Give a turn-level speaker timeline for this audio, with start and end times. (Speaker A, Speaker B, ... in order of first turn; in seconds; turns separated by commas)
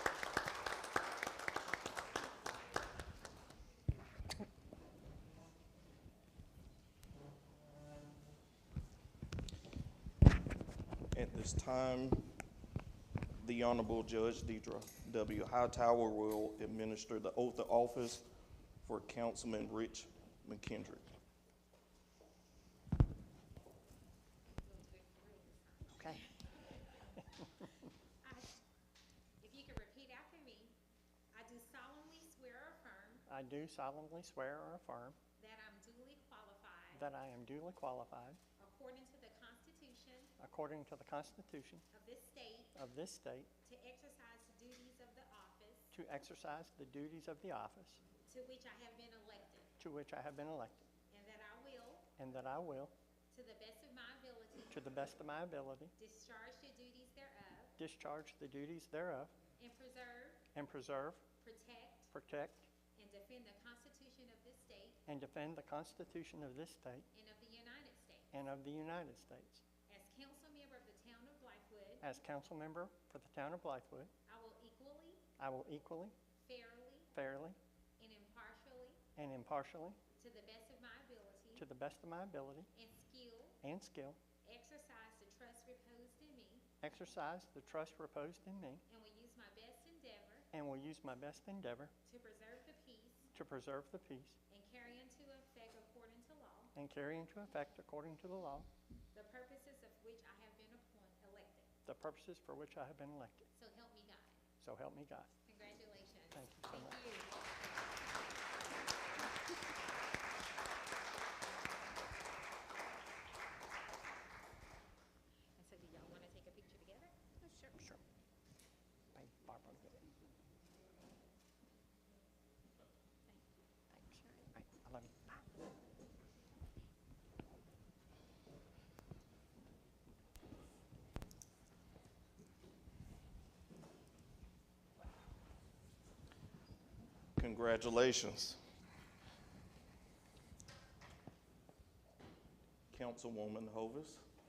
Speaker A: 11.1-12.3, Speaker A: 13.4-18.3, Speaker A: 18.8-21.1, Speaker B: 24.6-26.3, Speaker C: 25.9-26.3, Speaker B: 28.2-28.6, Speaker B: 29.4-30.8, Speaker B: 31.3-33.2, Speaker C: 33.3-35.2, Speaker B: 35.4-37.1, Speaker C: 36.9-38.4, Speaker B: 38.6-40.3, Speaker C: 40.4-41.8, Speaker B: 41.9-42.7, Speaker C: 42.8-43.5, Speaker B: 43.6-45.9, Speaker C: 45.9-48.0, Speaker B: 48.3-49.7, Speaker C: 49.8-50.9, Speaker B: 51.1-52.1, Speaker C: 52.2-52.9, Speaker B: 53.3-54.9, Speaker C: 54.7-55.9, Speaker B: 56.0-57.8, Speaker C: 57.8-59.3, Speaker B: 59.6-60.5, Speaker C: 60.5-61.3, Speaker B: 61.4-62.1, Speaker C: 62.1-62.7, Speaker B: 63.0-65.0, Speaker C: 65.1-67.1, Speaker B: 67.1-68.3, Speaker C: 68.3-69.7, Speaker B: 69.9-72.1, Speaker C: 72.0-74.1, Speaker B: 74.3-75.2, Speaker C: 75.4-76.1, Speaker B: 76.4-77.1, Speaker C: 77.1-77.6, Speaker B: 78.0-79.0, Speaker C: 79.2-80.0, Speaker B: 80.2-81.7, Speaker C: 81.6-82.7, Speaker B: 82.7-83.6, Speaker C: 83.6-84.2, Speaker B: 84.4-86.7, Speaker C: 86.8-88.8, Speaker B: 88.9-90.5, Speaker C: 90.5-91.9, Speaker B: 92.0-93.3, Speaker C: 93.3-94.4, Speaker B: 94.5-96.8, Speaker C: 96.8-98.7, Speaker B: 99.1-101.7, Speaker C: 101.9-103.5, Speaker B: 103.5-104.4, Speaker C: 104.6-105.3, Speaker B: 105.5-107.3, Speaker C: 106.3-107.0, Speaker B: 115.6-117.7, Speaker C: 117.7-118.0, Speaker C: 119.2-120.1, Speaker C: 123.9-125.4, Speaker A: 137.4-138.6, Speaker A: 142.9-144.3